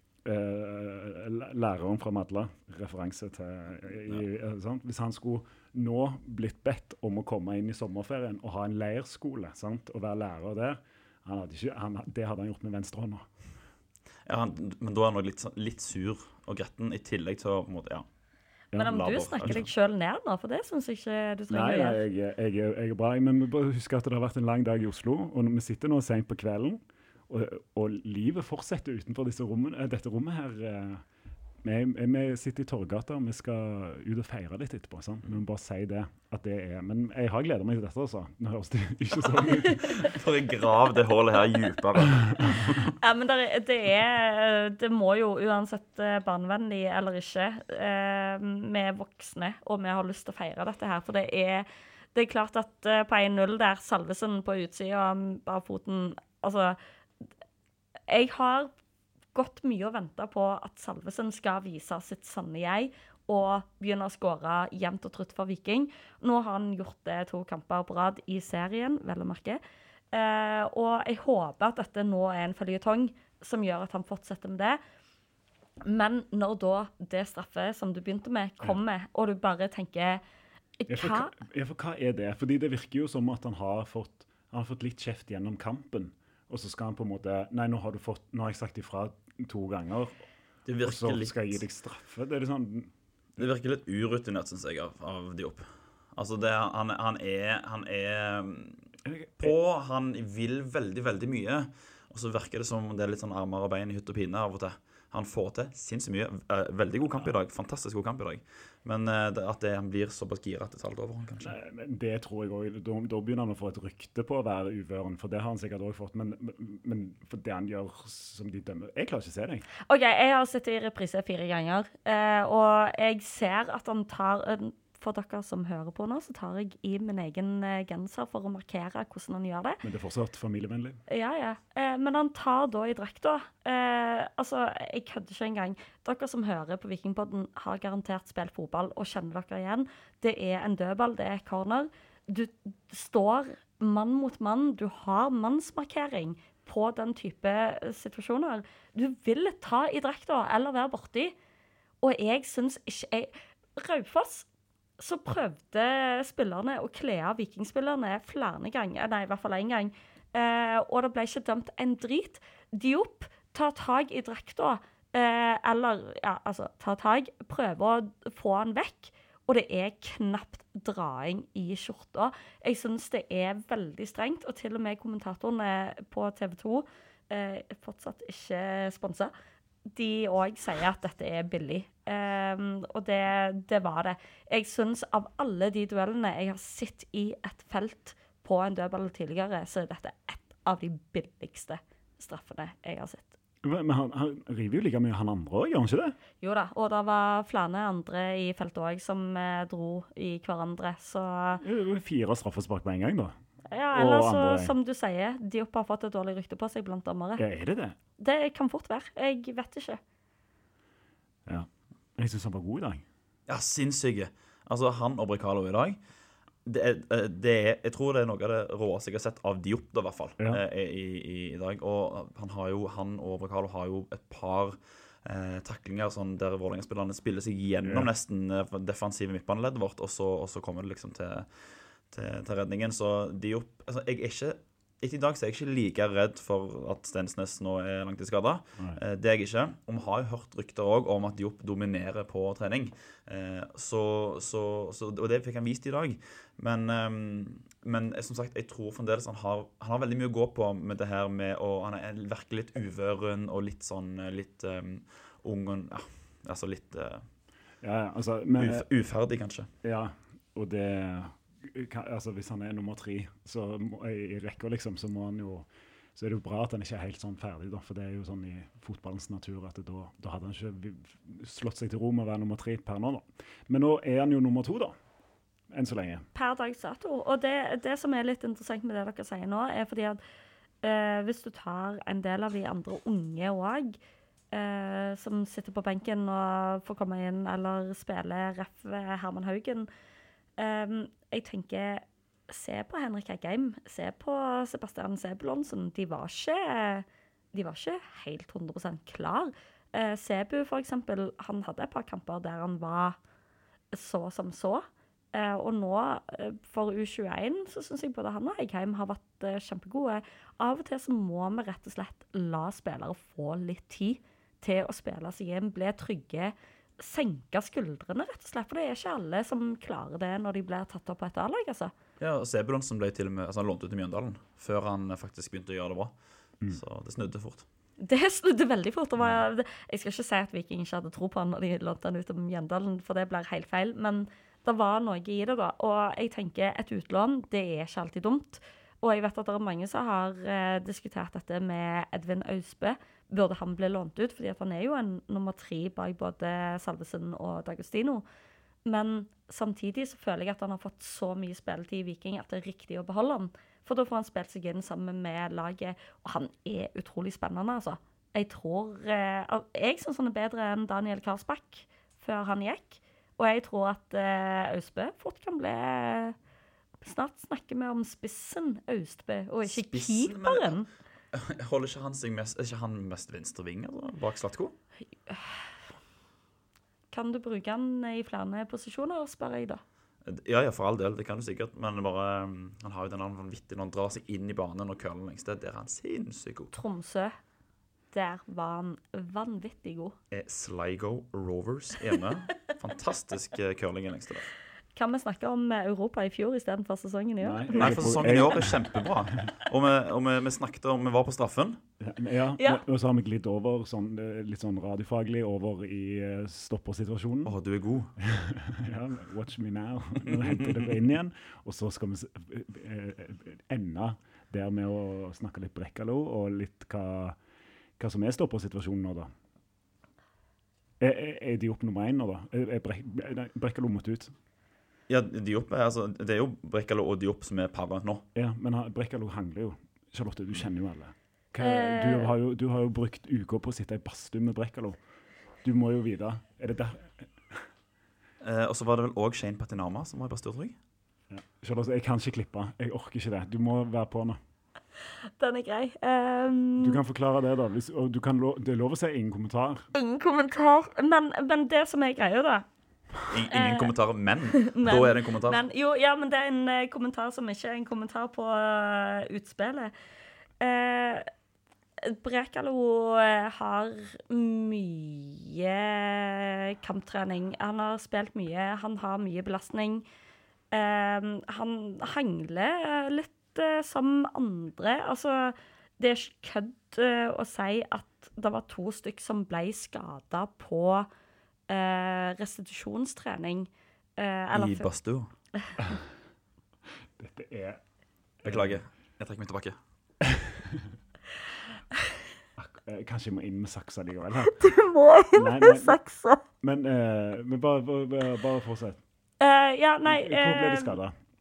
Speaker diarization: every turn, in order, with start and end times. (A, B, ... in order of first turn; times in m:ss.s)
0:00.2-0:13.3 A
0:14.2-0:18.1 B
0:18.7-0:19.6 B
0:18.7-0:22.0 C
0:21.5-0:31.0 A
0:31.6-0:40.0 A
0:39.6-0:40.1 C
0:39.7-0:42.9 B
0:43.0-0:56.8 C
0:58.1-0:58.7 C
0:59.3-1:09.6 C
1:10.1-1:14.8 C
1:15.8-1:20.2 C
1:20.8-1:21.3 C
1:20.9-1:30.2 A
1:30.6-1:31.6 B
1:30.8-1:32.9 A
1:33.4-1:38.8 B
1:39.0-1:39.5 A
1:39.4-1:51.5 B
1:51.4-1:59.7 A
1:59.9-2:09.8 C
2:09.8-2:11.0 A
2:11.1-2:31.3 C
2:32.0-2:34.5 C
2:35.0-2:59.3 C
2:59.9-3:13.4 C
3:13.6-3:16.2 A
3:16.4-3:21.6 C
3:21.6-3:23.3 A
3:23.7-3:27.4 C
3:23.9-3:24.7 A
3:27.4-3:28.0 A
3:28.2-3:30.0 C
3:31.4-3:33.0 A
3:33.5-3:36.0 B
3:36.6-4:17.2 B
3:47.8-3:48.1 A
4:17.8-4:18.8 A
4:18.6-4:19.7 B
4:19.8-4:34.9 A
4:35.7-4:36.2 A
4:36.3-4:40.2 C
4:40.8-4:44.0 C
4:44.5-4:49.9 C
4:50.6-5:03.2 C
5:03.9-5:21.9 C
5:22.2-5:26.1 B
5:26.7-5:27.6 B
5:28.0-5:48.2 C
5:48.8-6:06.4 C
6:07.0-6:10.9 C
6:09.6-6:14.7 B
6:15.3-6:15.7 C
6:17.1-6:19.8 C
6:20.2-6:26.7 B
6:26.7-6:27.3 C
6:28.1-6:30.1 C
6:30.3-6:34.5 B
6:35.0-6:38.2 C
6:37.4-6:39.0 A
6:37.7-6:41.8 B
6:42.0-6:47.5 A
6:47.4-6:48.1 B
6:48.2-6:57.4 A
6:50.3-6:50.9 B
6:58.0-6:59.3 A
7:01.0-7:04.3 A
7:05.1-7:08.2 B
7:08.3-7:15.0 A
7:11.6-7:12.3 C
7:15.6-7:17.7 A
7:18.4-7:20.8 B
7:21.3-7:24.4 A
7:25.4-7:27.0 C
7:26.8-7:29.9 A
7:29.9-7:32.6 C
7:33.3-7:35.6 B
7:33.5-7:33.9 C
7:34.6-7:39.9 C
7:40.6-7:41.3 C
7:42.0-7:50.0 C
7:50.7-8:01.1 C
8:01.7-8:04.9 C
8:04.5-8:05.3 B
8:07.2-8:07.8 A
8:08.4-8:08.8 A
8:08.4-8:09.8 B
8:10.2-8:10.9 A
8:12.6-8:14.6 A
8:14.6-8:16.4 C
8:15.3-8:16.0 A
8:16.6-8:19.0 A
8:19.4-8:21.0 C
8:20.0-8:21.1 A